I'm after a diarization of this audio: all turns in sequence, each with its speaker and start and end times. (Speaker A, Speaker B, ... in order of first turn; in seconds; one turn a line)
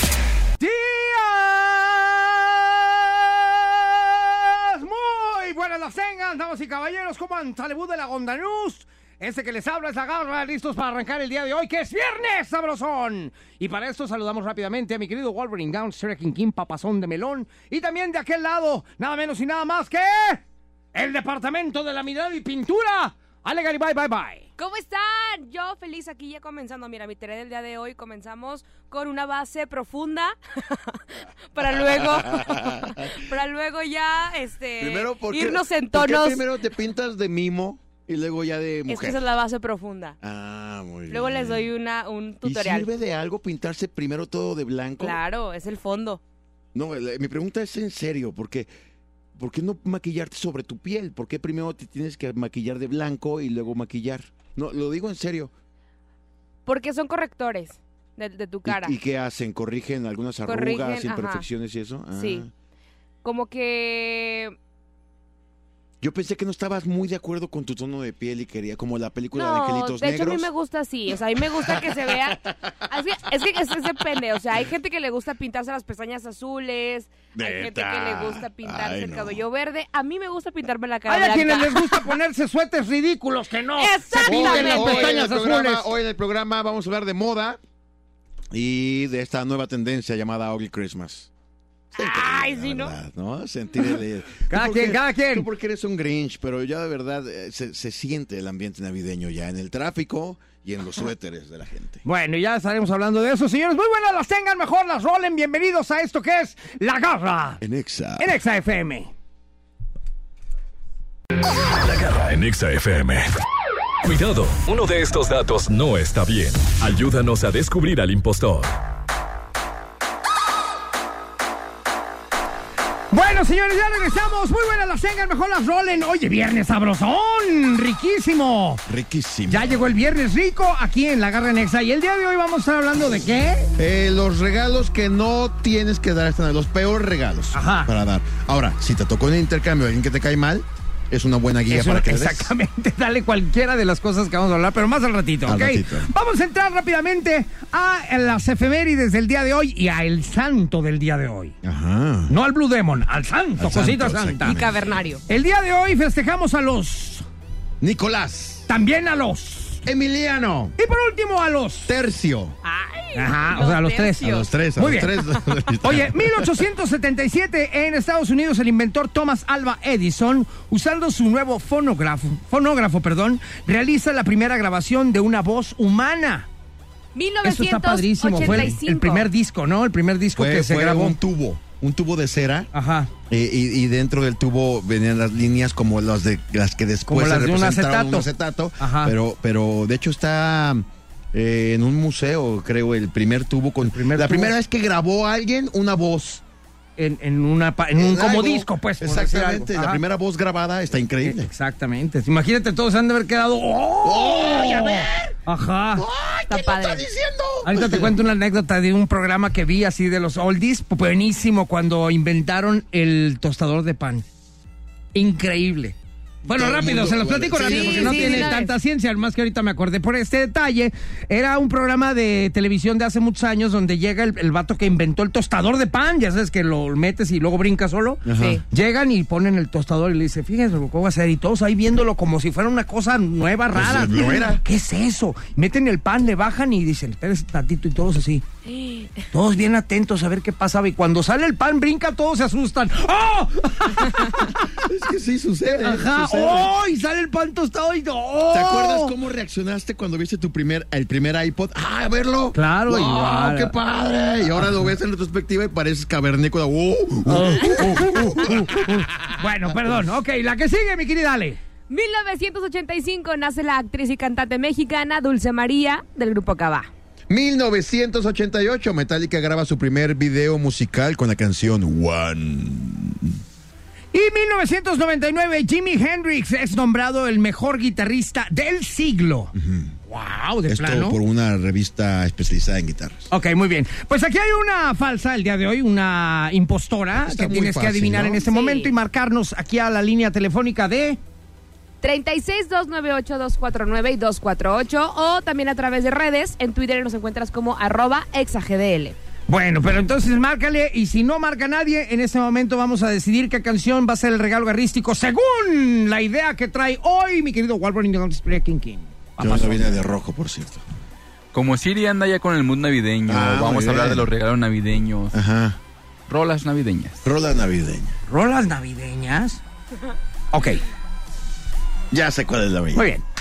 Speaker A: 0.6-20.4
Speaker A: 20.9-24.4
Speaker B: 24.6-36.4
Speaker C: 31.6-33.2
Speaker C: 34.8-39.2
Speaker B: 38.9-40.2
Speaker C: 40.2-41.7
Speaker B: 41.1-42.9
Speaker C: 42.4-45.2
Speaker B: 45.0-46.2
Speaker C: 46.7-48.7
Speaker C: 49.4-55.5
Speaker B: 56.7-59.0
Speaker C: 58.7-62.5
Speaker B: 60.5-61.5
Speaker B: 62.1-62.5
Speaker B: 63.2-64.5
Speaker C: 66.0-70.5
Speaker B: 69.3-82.2
Speaker C: 71.5-72.8
Speaker C: 77.3-79.4
Speaker A: 81.1-85.9
Speaker B: 83.8-85.2
Speaker C: 84.2-87.6
Speaker C: 88.5-91.3
Speaker C: 91.9-102.0
Speaker B: 92.0-93.0
Speaker A: 94.5-95.5
Speaker A: 102.0-107.6
Speaker C: 107.6-108.3
Speaker A: 108.2-109.1
Speaker D: 111.5-113.3
Speaker D: 114.0-118.8
Speaker A: 123.1-128.8
Speaker C: 128.9-129.7
Speaker A: 129.5-133.7
Speaker C: 133.8-142.5
Speaker A: 137.5-137.9
Speaker A: 141.7-151.6
Speaker C: 145.5-146.1
Speaker C: 151.6-152.3
Speaker A: 152.3-154.6
Speaker C: 153.6-155.0
Speaker B: 154.4-155.2
Speaker A: 155.3-157.3
Speaker C: 157.8-158.7
Speaker A: 158.7-159.8
Speaker C: 159.9-160.8
Speaker A: 160.8-161.9
Speaker C: 161.9-162.6
Speaker B: 162.6-164.5
Speaker A: 163.2-164.2
Speaker C: 164.2-166.5
Speaker A: 164.8-165.1
Speaker A: 165.8-176.5
Speaker B: 177.2-179.3
Speaker A: 177.4-181.2
Speaker C: 178.4-178.8
Speaker C: 180.4-182.7
Speaker A: 182.7-183.1
Speaker C: 183.3-196.4
Speaker A: 187.1-188.3
Speaker A: 188.8-189.1
Speaker A: 193.8-194.5
Speaker A: 197.0-200.0
Speaker C: 198.0-201.5
Speaker A: 201.2-206.1
Speaker C: 204.0-205.3
Speaker C: 205.9-208.2
Speaker B: 206.5-207.1
Speaker A: 207.6-214.2
Speaker A: 215.1-238.4
Speaker C: 216.5-218.6
Speaker B: 217.7-218.7
Speaker C: 228.2-228.6
Speaker C: 233.7-234.6
Speaker B: 238.7-239.2
Speaker A: 239.3-244.8
Speaker C: 244.7-246.7
Speaker A: 245.7-249.1
Speaker C: 248.5-260.0
Speaker A: 252.6-253.7
Speaker A: 257.3-261.6
Speaker B: 261.9-266.9
Speaker C: 267.3-273.4
Speaker A: 274.1-279.5
Speaker C: 279.5-280.0
Speaker A: 280.1-281.2
Speaker C: 280.7-283.3
Speaker A: 283.3-291.2
Speaker C: 287.1-288.4
Speaker B: 288.4-288.9
Speaker B: 292.0-299.2
Speaker A: 299.5-310.0
Speaker C: 309.4-310.8
Speaker E: 311.5-315.4
Speaker C: 313.3-314.3
Speaker C: 315.3-315.8
Speaker E: 316.3-317.2
Speaker C: 317.2-318.1
Speaker A: 318.3-319.6
Speaker A: 320.5-320.8
Speaker C: 322.1-323.1
Speaker A: 322.9-323.2